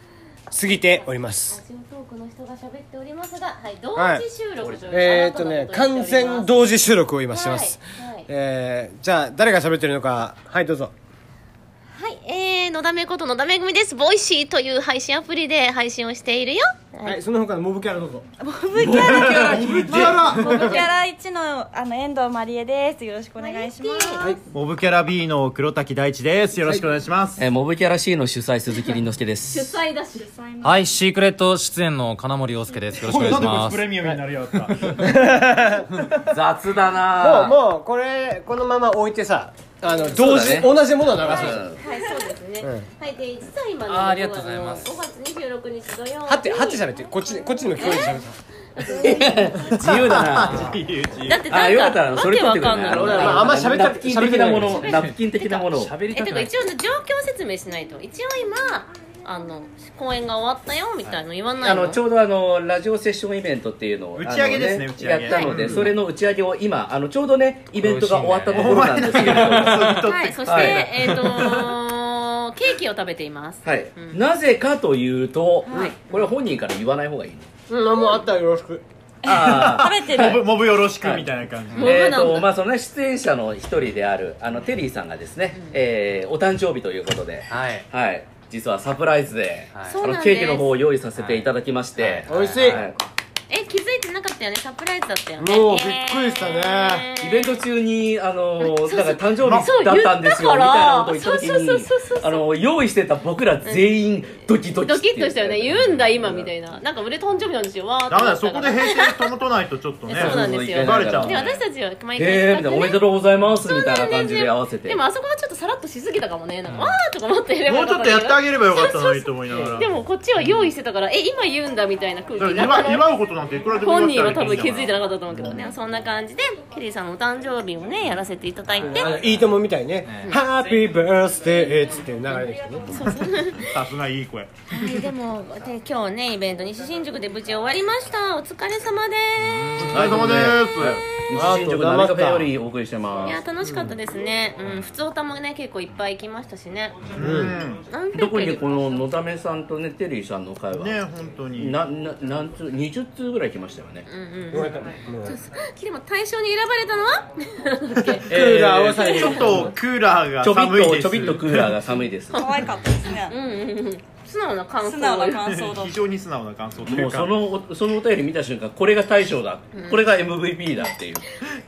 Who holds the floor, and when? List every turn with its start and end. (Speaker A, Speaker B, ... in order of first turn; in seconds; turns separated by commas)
Speaker A: 0.5-1.6, Speaker B: 0.8-6.7, Speaker A: 4.0-4.2, Speaker C: 4.6-5.2, Speaker A: 4.9-10.9, Speaker B: 7.3-8.3, Speaker B: 11.9-17.2, Speaker A: 17.0-18.2, Speaker D: 18.4-24.3, Speaker C: 18.7-20.2, Speaker E: 19.1-20.6, Speaker F: 19.4-19.7, Speaker A: 19.9-20.9, Speaker B: 23.4-24.5, Speaker E: 24.5-27.4, Speaker C: 27.4-29.7, Speaker B: 29.4-30.3, Speaker D: 30.2-30.9, Speaker F: 30.6-33.9, Speaker E: 32.9-35.4, Speaker A: 34.8-35.9, Speaker E: 35.9-36.4, Speaker C: 36.3-37.6, Speaker A: 37.1-41.7, Speaker C: 40.0-41.8, Speaker B: 41.3-49.8, Speaker A: 42.6-42.9, Speaker F: 43.9-44.9, Speaker A: 46.2-48.3, Speaker C: 48.9-50.8, Speaker E: 49.9-51.5, Speaker B: 51.2-53.7, Speaker C: 51.5-55.9, Speaker A: 52.9-55.0, Speaker F: 54.8-55.2, Speaker B: 55.0-62.0, Speaker F: 55.7-56.5, Speaker C: 61.6-70.9, Speaker E: 64.2-66.0, Speaker B: 65.3-65.9, Speaker F: 67.8-68.8, Speaker E: 68.5-71.7, Speaker B: 69.9-74.2, Speaker C: 73.6-77.5, Speaker B: 75.7-76.3, Speaker A: 77.7-78.8, Speaker E: 79.2-81.9, Speaker C: 79.2-80.4, Speaker D: 79.8-80.4, Speaker C: 81.0-93.0, Speaker B: 81.7-82.5, Speaker F: 87.5-87.8, Speaker F: 89.7-90.0, Speaker B: 89.8-90.7, Speaker F: 91.1-91.5, Speaker F: 92.0-92.8, Speaker A: 92.3-92.8, Speaker B: 93.5-97.5, Speaker A: 95.4-97.1, Speaker C: 97.2-106.5, Speaker B: 98.6-102.5, Speaker E: 99.4-99.7, Speaker B: 103.6-103.9, Speaker B: 104.8-109.3, Speaker E: 108.1-111.5, Speaker B: 110.0-113.1, Speaker C: 110.1-111.5, Speaker C: 112.1-115.0, Speaker B: 113.6-123.2, Speaker E: 116.7-116.9, Speaker E: 117.7-120.0, Speaker E: 122.4-125.4, Speaker B: 123.7-129.1, Speaker A: 128.8-132.9, Speaker F: 128.9-129.4, Speaker F: 130.1-130.4, Speaker D: 132.4-132.8, Speaker B: 132.8-133.8, Speaker E: 132.9-135.1, Speaker B: 134.7-140.0, Speaker F: 139.4-140.2, Speaker E: 139.8-141.0, Speaker C: 139.9-143.4, Speaker A: 141.3-142.5, Speaker B: 143.2-148.7, Speaker E: 147.1-147.8, Speaker A: 147.2-147.5, Speaker C: 148.1-151.0, Speaker E: 150.7-151.8, Speaker C: 151.6-154.1, Speaker B: 154.1-158.3, Speaker A: 154.5-155.4, Speaker E: 158.0-161.8, Speaker A: 158.2-159.8, Speaker B: 159.0-159.5, Speaker C: 160.4-162.5, Speaker D: 162.3-163.3, Speaker B: 162.3-165.6, Speaker D: 164.8-166.0, Speaker E: 165.3-167.4, Speaker C: 166.9-171.2, Speaker B: 169.7-170.2